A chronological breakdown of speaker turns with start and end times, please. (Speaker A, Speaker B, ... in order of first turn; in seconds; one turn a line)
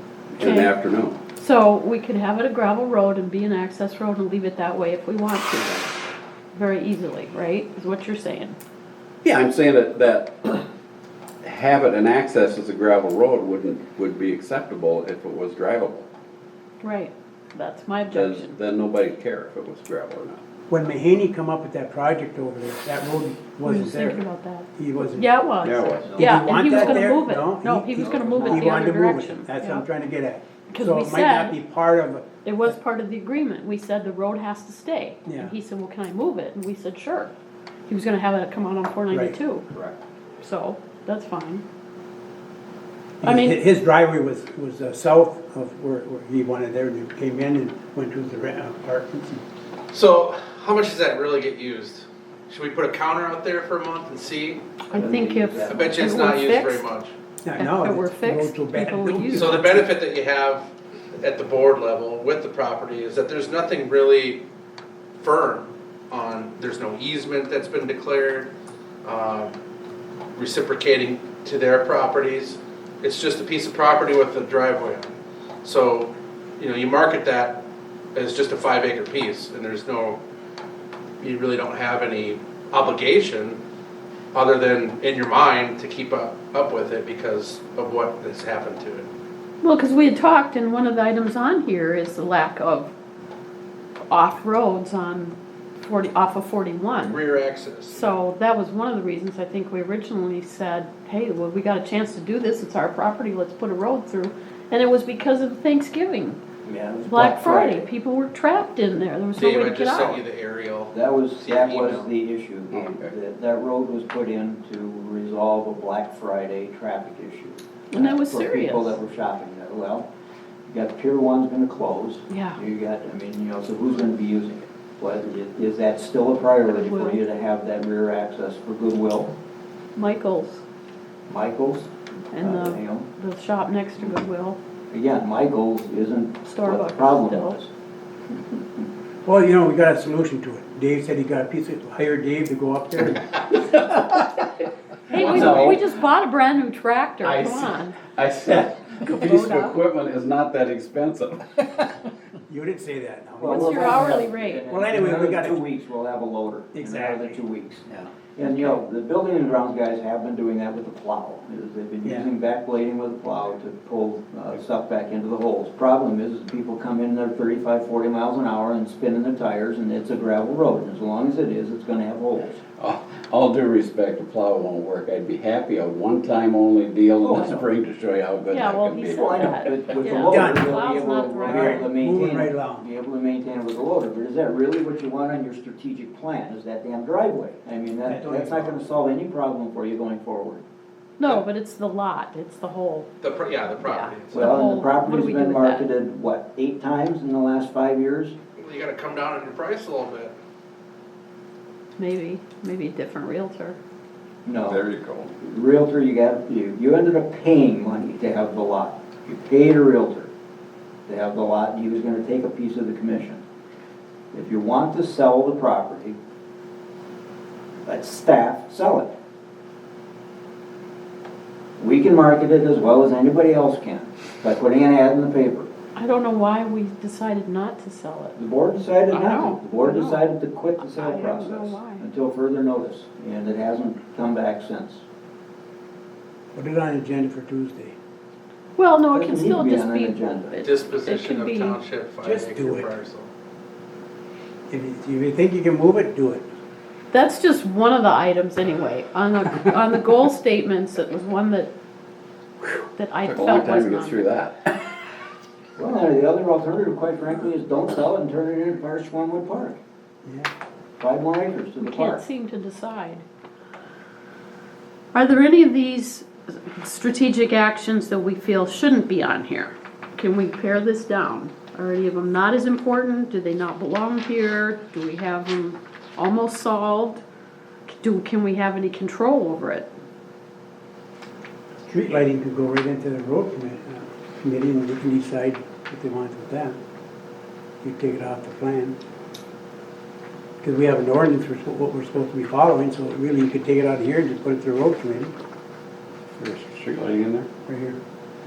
Speaker A: 0.4-0.7
Speaker B: 0.4-1.2
Speaker A: 1.4-5.9
Speaker A: 6.5-8.6
Speaker B: 9.2-10.6
Speaker B: 11.4-16.1
Speaker A: 16.8-18.6
Speaker B: 18.1-20.4
Speaker C: 20.7-25.3
Speaker A: 23.6-29.9
Speaker B: 25.6-27.0
Speaker D: 26.1-26.5
Speaker C: 26.1-32.3
Speaker D: 28.0-28.7
Speaker B: 28.1-28.5
Speaker A: 30.7-31.6
Speaker A: 32.5-37.3
Speaker C: 35.3-35.5
Speaker A: 37.9-39.6
Speaker C: 39.1-39.4
Speaker A: 40.4-41.6
Speaker C: 43.2-49.4
Speaker A: 43.2-43.6
Speaker E: 49.9-54.7
Speaker A: 54.9-56.9
Speaker D: 54.9-56.1
Speaker E: 55.6-57.1
Speaker C: 57.4-59.9
Speaker A: 57.6-59.6
Speaker E: 59.3-64.4
Speaker E: 65.2-68.5
Speaker E: 69.0-69.5
Speaker E: 70.3-77.6
Speaker E: 78.2-80.2
Speaker E: 81.2-83.6
Speaker E: 84.3-89.1
Speaker A: 89.6-92.9
Speaker A: 94.1-97.2
Speaker E: 97.0-98.2
Speaker A: 97.9-106.4
Speaker D: 106.7-107.9
Speaker A: 107.1-110.2
Speaker E: 109.4-112.1
Speaker D: 110.9-120.1
Speaker B: 112.7-113.1
Speaker A: 117.9-119.0
Speaker D: 120.7-129.3
Speaker A: 122.3-122.6
Speaker A: 126.7-127.2
Speaker A: 130.0-130.6
Speaker D: 131.3-133.1
Speaker A: 132.3-134.6
Speaker D: 134.9-137.7
Speaker A: 136.4-137.6
Speaker C: 139.2-143.4
Speaker B: 143.5-144.5
Speaker A: 145.1-148.0
Speaker B: 145.1-145.8
Speaker B: 147.2-151.7
Speaker A: 149.0-149.8
Speaker C: 152.5-155.6
Speaker D: 153.4-172.6
Speaker A: 153.5-154.6
Speaker C: 156.7-157.4
Speaker B: 172.8-180.0
Speaker D: 177.2-177.7
Speaker A: 178.5-181.9
Speaker D: 179.0-190.6
Speaker C: 180.0-182.9
Speaker C: 188.0-188.9
Speaker A: 191.2-193.1
Speaker E: 193.2-194.5
Speaker A: 193.8-195.9
Speaker D: 194.3-198.4
Speaker E: 198.6-200.3
Speaker A: 202.0-203.8
Speaker D: 204.4-204.9
Speaker B: 204.7-205.3
Speaker D: 205.4-210.3
Speaker D: 211.1-213.4
Speaker D: 214.3-216.2
Speaker D: 217.9-219.1
Speaker D: 221.8-225.7
Speaker A: 226.0-228.4
Speaker D: 228.4-235.0
Speaker A: 229.1-230.3
Speaker A: 230.8-232.1
Speaker C: 236.5-237.9
Speaker A: 238.8-241.8
Speaker D: 239.1-240.6
Speaker E: 240.6-243.3
Speaker C: 242.2-242.9
Speaker C: 244.7-246.5
Speaker A: 247.1-251.7
Speaker A: 252.9-254.3
Speaker B: 253.2-254.7
Speaker D: 255.8-259.8
Speaker D: 261.0-262.2
Speaker A: 261.8-263.3
Speaker A: 265.1-277.2
Speaker A: 277.9-279.9
Speaker C: 281.9-286.8
Speaker C: 287.8-289.0
Speaker C: 290.6-295.4
Speaker B: 296.4-297.5
Speaker C: 297.7-298.0